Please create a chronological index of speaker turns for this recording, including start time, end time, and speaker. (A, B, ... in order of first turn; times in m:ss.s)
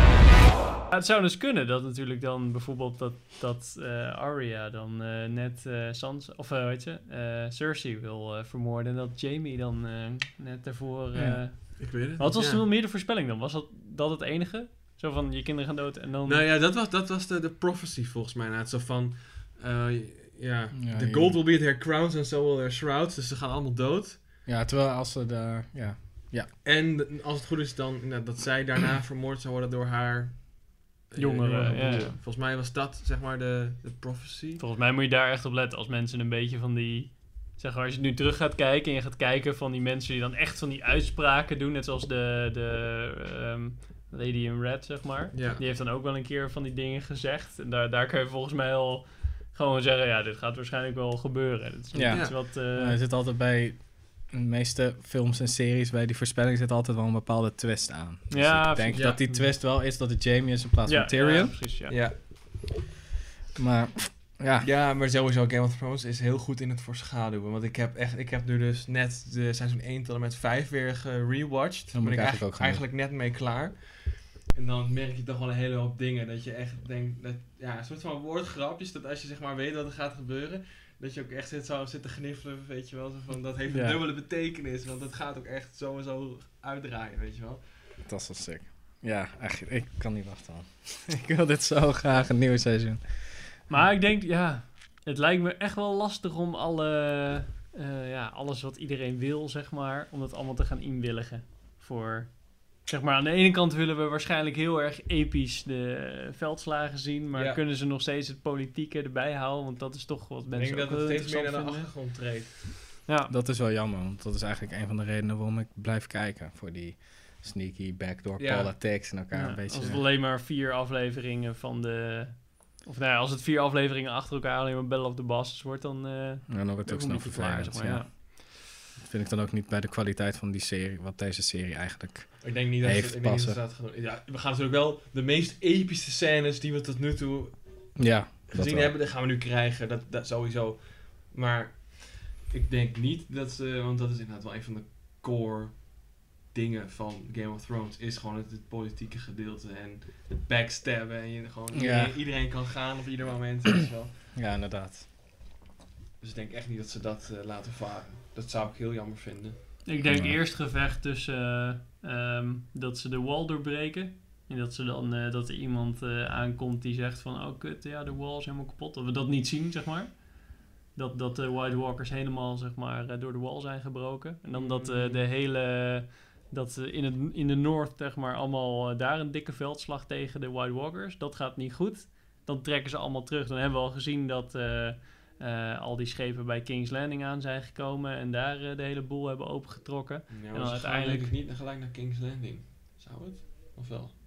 0:00.9-0:16.5 A
0:11.1-0:11.4 B
0:11.8-0:12.6 C
0:16.2-0:24.2 C
0:20.7-0:21.4 B
0:24.4-0:26.5 B
0:26.6-0:34.6 C
0:31.2-0:32.2 A
0:34.6-0:53.0 A
0:45.3-0:45.6 C
0:51.9-1:01.6 B
0:52.1-0:52.4 C
0:58.3-0:59.5 A
0:58.9-0:59.2 C
1:00.8-1:02.0 A
1:01.9-1:02.2 C
1:03.6-1:04.7 B
1:04.6-1:27.7 C
1:11.9-1:12.8 B
1:23.7-1:24.0 B
1:28.0-1:33.6 B
1:33.7-1:51.9 A
1:47.3-1:47.6 C
1:50.5-1:52.7 C
1:53.0-1:53.3 A
1:53.3-2:00.0 B
1:58.4-1:58.7 C
1:59.3-2:08.2 A
2:06.5-2:08.4 B
2:09.0-2:13.6 B
2:12.4-2:34.1 C
2:18.0-2:19.0 B
2:31.7-2:32.2 B
2:34.3-2:35.0 B
2:36.2-2:39.8 C
2:39.8-3:11.3 A
2:40.0-2:40.4 B
2:54.5-2:55.2 C
3:10.3-3:14.1 C